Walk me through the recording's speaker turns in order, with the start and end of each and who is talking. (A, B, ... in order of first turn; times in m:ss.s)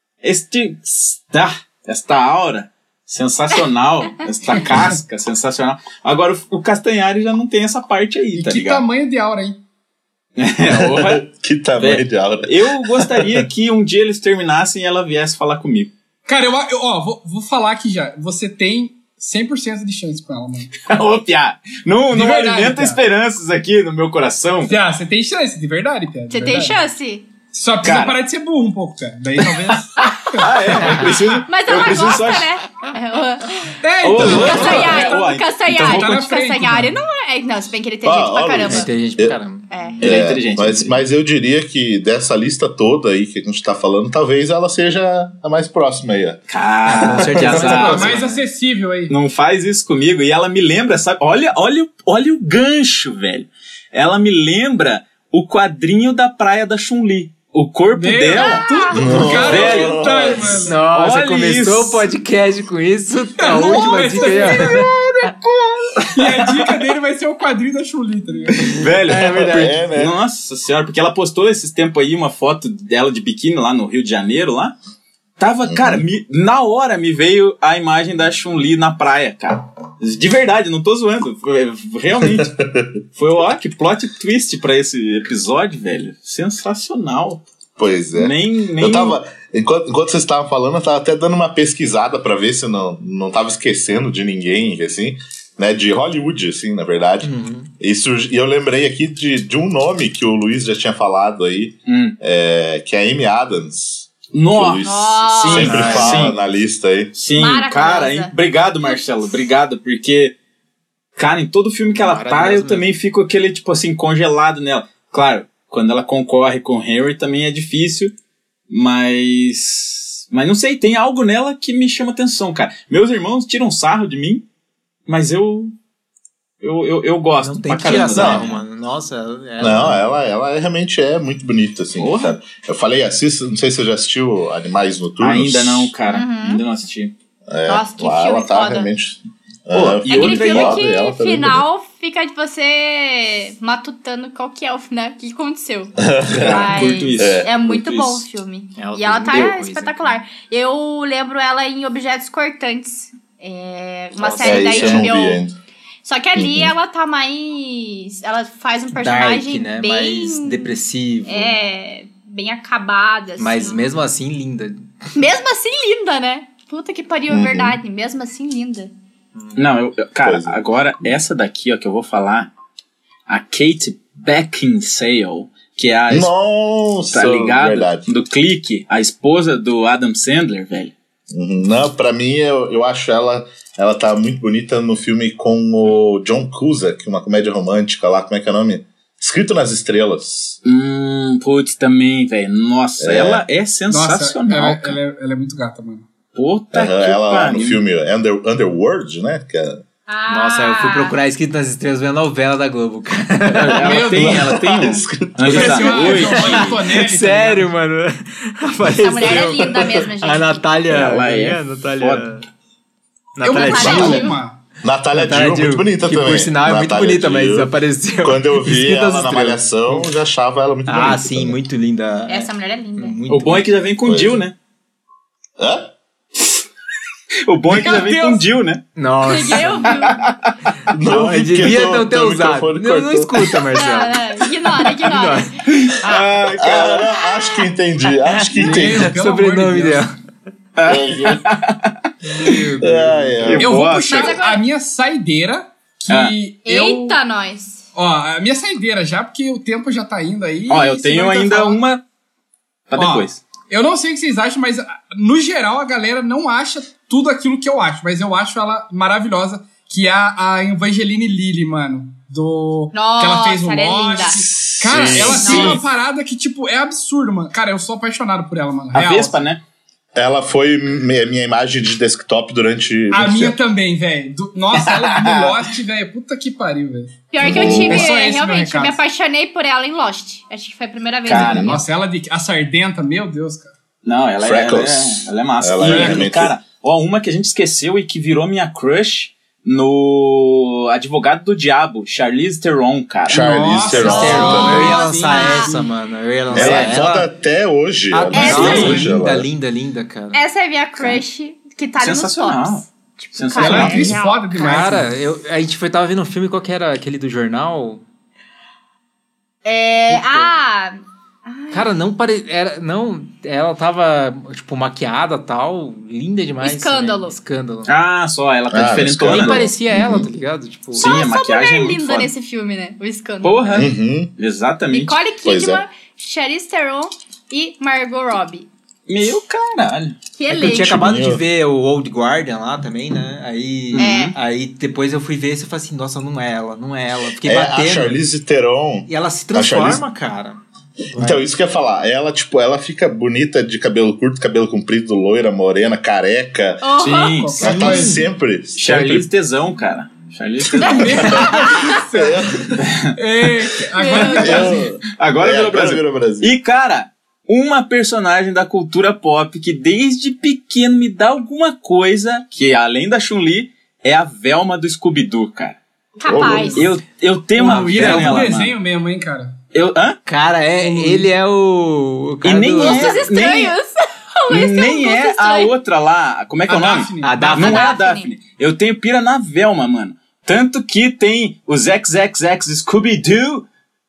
0:00.2-0:08.8 A
0:08.3-0:09.6 B
0:10.4-0:11.2 A
0:10.7-0:13.4 C
0:11.8-0:15.9 A
0:16.3-0:20.7 B
0:20.8-0:24.8 A
0:22.1-0:23.0 B
0:24.6-0:26.8 B
0:26.3-0:27.3 D
0:27.5-0:31.4 B
0:27.8-0:28.2 A
0:29.5-0:32.5 A
0:30.8-0:31.1 E
0:31.5-0:38.9 D
0:33.8-0:36.9 B
0:34.0-0:36.3 A
0:34.2-0:34.9 C
0:38.0-0:39.4 C
0:38.6-0:39.7 E
0:39.7-0:40.0 D
0:40.0-0:46.4 C
0:40.0-0:41.0 A
0:46.5-0:48.2 A
0:46.9-0:48.4 E
0:47.0-0:47.7 C
0:47.4-0:49.1 B
0:49.1-1:02.1 A
0:57.9-1:00.8 B
0:58.4-0:59.1 D
0:58.9-1:00.6 C
1:00.6-1:04.9 E
1:03.4-1:04.9 B
1:06.0-1:06.8 A
1:06.1-1:08.7 B
1:08.6-1:09.8 E
1:08.7-1:14.8 A
1:09.2-1:10.1 C
1:15.4-1:22.6 A
1:15.7-1:16.0 C
1:22.2-1:22.9 C
1:23.2-1:27.4 A
1:27.8-1:47.2 C
1:28.2-1:29.2 A
1:37.2-1:37.7 E
1:41.9-1:42.2 A
1:44.3-1:46.4 A
1:44.8-1:45.9 D
1:45.6-1:46.3 E
1:47.1-1:50.4 A
1:47.4-1:48.3 D
1:51.2-1:58.1 A
1:51.9-1:52.9 E
1:58.7-2:04.4 A
2:05.1-2:05.7 A
2:06.6-2:08.6 A
2:07.4-2:10.0 E
2:08.1-2:08.5 C
2:09.6-2:15.9 C
2:12.0-2:12.4 A
2:15.2-2:17.1 A
2:16.1-2:16.6 D
2:17.5-2:21.6 C
2:17.7-2:18.9 D
2:19.7-2:20.9 A
2:20.1-2:35.4 D
2:26.0-2:27.5 C
2:26.3-2:28.2 A
2:28.8-2:30.2 E
2:34.2-2:35.0 E
2:34.4-2:35.5 C
2:36.0-2:43.9 D
2:36.4-2:36.7 C
2:38.9-2:41.6 E
2:43.4-2:44.9 E
2:45.2-2:48.9 D
2:47.3-2:47.8 C
2:49.4-2:49.6 E
2:49.6-2:52.5 A
2:50.2-2:50.7 C
2:53.3-2:56.3 A
2:56.1-2:58.1 C
2:57.1-3:00.9 A
3:01.3-3:10.6 C
3:10.6-3:15.0 A
3:13.0-3:13.4 C
3:13.9-3:16.1 B
3:16.4-3:17.8 A
3:16.7-3:19.8 C
3:20.1-3:21.2 D
3:20.3-3:24.0 E
3:23.5-3:26.8 A
3:23.8-3:24.4 B
3:24.2-3:26.1 C
3:25.4-3:27.7 B
3:26.2-3:32.5 E
3:28.9-3:30.6 D
3:30.9-3:32.3 A
3:33.4-3:34.3 E
3:33.4-3:34.6 B
3:33.6-3:34.4 D
3:34.8-3:41.6 C
3:35.1-3:40.1 E
3:40.9-3:43.7 E
3:42.3-3:43.2 D
3:43.3-3:44.6 A
3:44.0-3:44.5 C
3:45.6-3:45.9 C
3:47.5-3:48.8 A
3:47.7-3:48.4 B
3:49.0-3:50.0 E
3:49.2-3:50.2 D
3:49.9-3:50.4 A
3:50.9-3:53.6 C
3:51.0-3:54.2 E
3:53.7-3:55.5 D
3:54.8-3:55.5 E
3:55.7-3:57.1 A
3:56.6-3:59.1 C
3:57.1-3:57.7 D
3:58.3-4:00.2 E
3:58.5-4:00.1 B
4:00.8-4:02.0 A
4:00.9-4:01.4 C
4:02.2-4:03.6 E
4:02.8-4:03.8 C
4:03.4-4:04.4 A
4:03.6-4:07.2 B
4:04.1-4:04.6 D
4:06.1-4:06.4 A
4:06.6-4:07.9 D
4:08.0-4:11.8 B
4:10.7-4:12.0 A
4:12.9-4:13.4 A
4:13.0-4:29.5 B
4:22.9-4:24.4 D
4:24.3-4:25.8 C
4:25.0-4:25.8 A
4:25.4-4:25.8 D
4:28.9-4:29.6 A
4:30.2-4:33.6 C
4:33.1-4:39.0 B
4:34.8-4:35.6 A
4:37.3-4:41.9 D
4:37.4-4:38.1 C
4:41.2-4:41.8 A
4:41.3-4:41.8 C
4:41.6-4:43.8 B
4:44.0-4:53.5 A
4:44.4-4:46.6 C
4:45.9-4:46.3 B
4:53.3-4:55.0 C
4:53.3-4:55.8 B
4:54.0-4:57.3 E
4:54.0-4:55.7 D
4:56.5-4:59.5 C
4:56.6-4:57.0 A
4:58.1-5:00.4 E
4:58.3-4:58.9 D
4:58.4-4:59.0 A
4:58.5-4:59.1 B
5:00.3-5:04.9 D
5:02.0-5:04.2 A
5:03.6-5:05.1 B
5:04.6-5:08.0 E
5:09.6-5:12.0 D
5:10.1-5:10.5 E
5:11.7-5:17.9 E
5:16.6-5:17.4 D
5:17.9-5:19.7 A
5:18.7-5:20.3 C
5:19.3-5:21.2 E
5:21.0-5:22.3 A
5:21.0-5:23.8 D
5:23.4-5:25.2 A
5:23.7-5:24.3 C
5:24.9-5:28.7 D
5:25.4-5:25.8 C
5:29.1-5:30.2 A
5:30.4-5:31.0 D
5:30.5-5:38.2 E
5:30.6-5:31.4 C
5:33.9-5:34.4 A
5:34.0-5:34.4 D
5:37.4-5:40.0 C
5:39.1-5:40.6 E
5:41.1-5:41.4 E
5:41.1-5:49.3 C
5:46.8-5:47.5 D
5:47.0-5:47.6 A
5:47.3-5:48.2 B
5:47.6-5:48.3 E
5:48.8-5:51.4 A
5:50.8-5:52.0 D
5:50.8-5:53.0 C
5:50.8-5:52.5 B
5:52.8-5:53.2 A
5:53.2-5:54.9 B
5:54.0-5:54.8 D
5:54.2-5:56.6 C
5:55.2-6:05.8 A
6:06.2-6:06.9 D
6:06.2-6:06.9 C
6:06.4-6:08.7 A
6:07.6-6:09.6 B
6:07.6-6:08.5 E
6:09.7-6:10.2 A
6:10.3-6:13.2 E
6:10.7-6:11.3 B
6:12.4-6:13.8 A
6:12.8-6:15.7 D
6:14.5-6:23.7 A
6:16.7-6:17.6 B
6:17.2-6:18.0 E
6:17.4-6:18.3 D